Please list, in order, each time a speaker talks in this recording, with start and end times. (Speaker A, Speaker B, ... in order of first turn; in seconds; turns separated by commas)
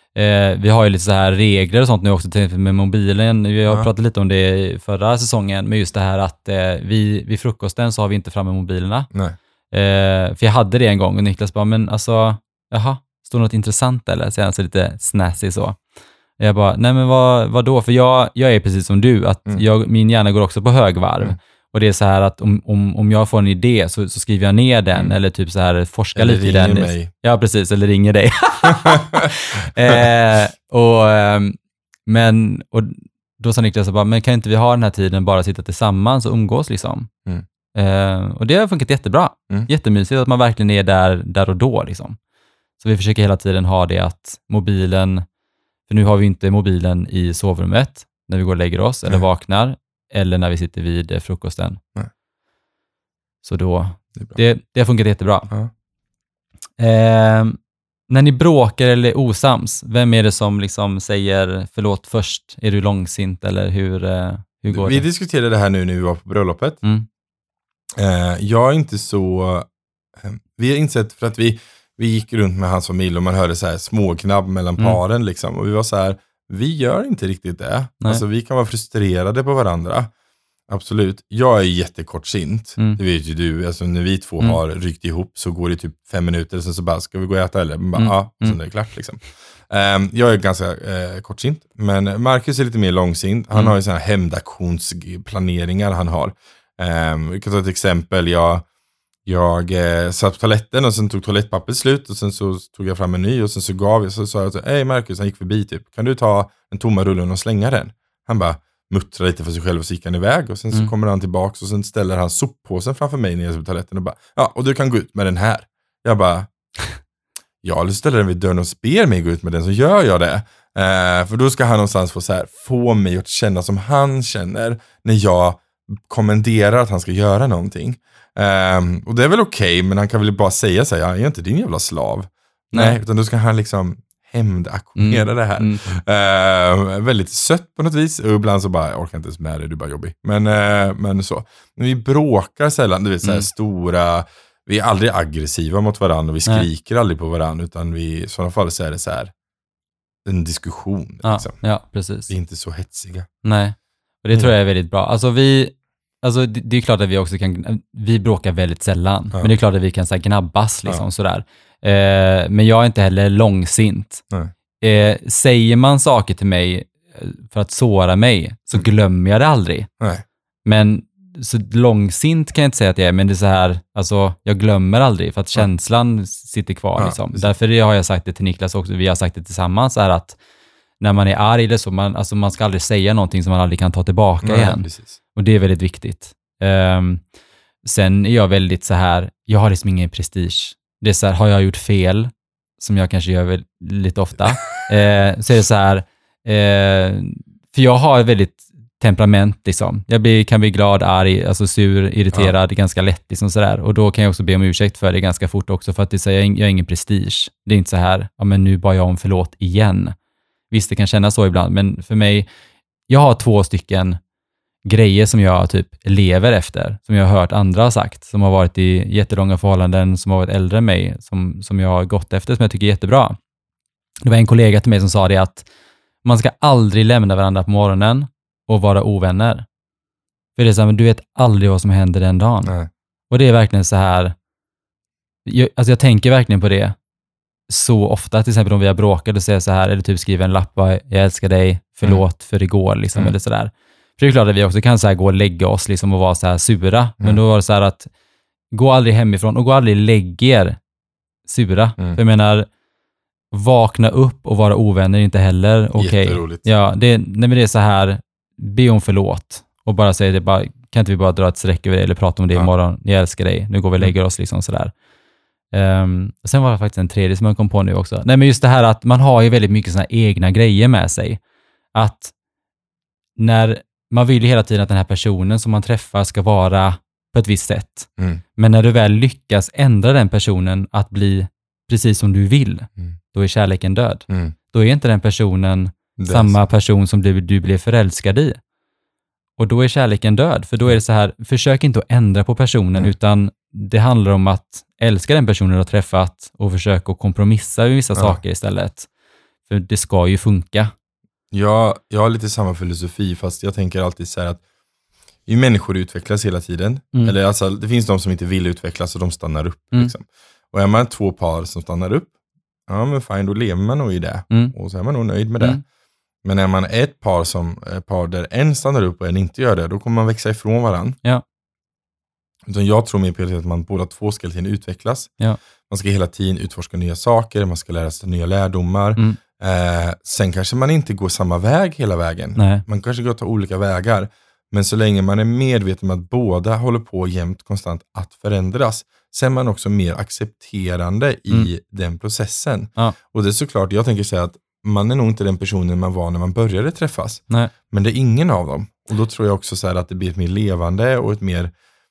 Speaker A: 0.1-9.1, Speaker B: 9.1-9.4, Speaker A: 9.7-15.8, Speaker A: 16.4-37.1, Speaker B: 26.1-27.1, Speaker B: 28.9-29.3, Speaker A: 37.7-42.2, Speaker A: 42.8-45.2, Speaker A: 45.9-51.8, Speaker A: 53.4-55.5, Speaker A: 56.8-57.6, Speaker A: 58.1-65.0, Speaker B: 64.7-66.8, Speaker B: 68.0-80.1, Speaker B: 80.7-98.6, Speaker A: 87.9-88.6, Speaker B: 99.2-116.5, Speaker B: 117.6-149.3, Speaker A: 132.7-133.0, Speaker A: 135.0-135.8, Speaker A: 143.2-143.5, Speaker B: 150.2-151.6, Speaker A: 151.2-152.3, Speaker B: 152.3-153.3, Speaker A: 153.4-164.2, Speaker A: 164.8-169.9, Speaker A: 170.6-180.4, Speaker B: 177.0-177.5, Speaker A: 181.0-187.2, Speaker B: 184.4-185.1, Speaker A: 187.8-210.1, Speaker A: 210.7-212.5, Speaker A: 213.1-214.2, Speaker A: 214.8-223.4, Speaker A: 224.2-225.7, Speaker A: 226.2-229.7, Speaker A: 230.6-232.7, Speaker A: 233.3-234.3, Speaker A: 235.4-236.9, Speaker A: 237.7-248.1, Speaker A: 248.7-250.8, Speaker A: 251.4-252.7, Speaker A: 253.5-264.9, Speaker B: 256.0-256.6, Speaker A: 265.7-271.4, Speaker A: 271.9-272.3, Speaker A: 273.4-288.6, Speaker B: 284.3-284.5, Speaker B: 286.2-286.6, Speaker A: 289.6-299.1, Speaker A: 299.7-300.9, Speaker B: 301.5-304.6, Speaker B: 305.5-312.3, Speaker B: 312.9-315.8, Speaker B: 316.4-321.2, Speaker B: 322.6-325.3, Speaker B: 325.9-351.7, Speaker A: 332.6-332.8